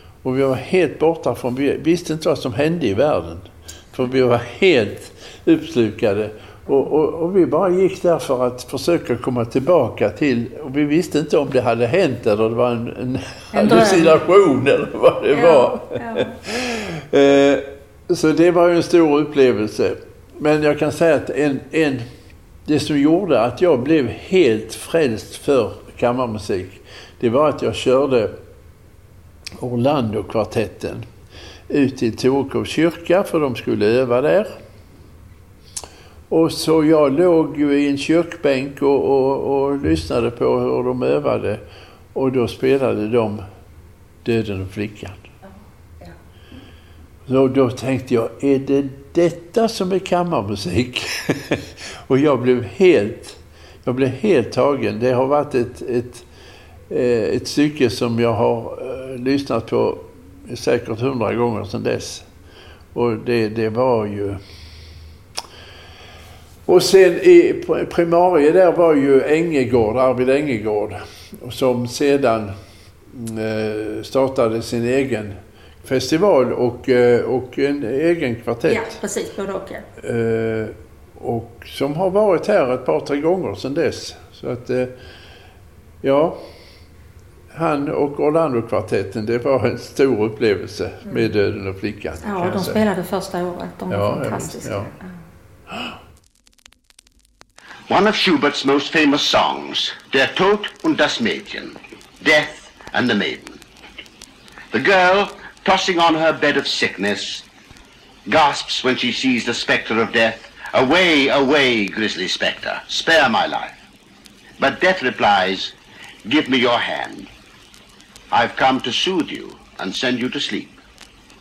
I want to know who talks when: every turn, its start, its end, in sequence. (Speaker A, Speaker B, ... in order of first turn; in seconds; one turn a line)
Speaker A: 0.2-22.1
Speaker B: 13.5-14.2
Speaker B: 15.3-16.4
Speaker A: 22.6-28.3
Speaker A: 29.6-31.1
Speaker A: 31.7-34.5
Speaker A: 36.3-41.6
Speaker A: 42.1-43.4
Speaker A: 44.2-45.3
Speaker A: 47.3-56.2
Speaker A: 56.9-62.3
Speaker A: 62.9-64.4
Speaker A: 66.7-72.5
Speaker A: 73.1-79.0
Speaker B: 78.7-79.8
Speaker A: 80.0-84.9
Speaker A: 86.0-86.4
Speaker A: 87.5-92.8
Speaker B: 92.2-95.1
Speaker A: 93.9-94.9
Speaker C: 97.9-103.6
Speaker C: 104.7-107.4
Speaker C: 108.2-113.7
Speaker C: 114.6-115.7
Speaker C: 116.2-117.3
Speaker C: 118.3-120.7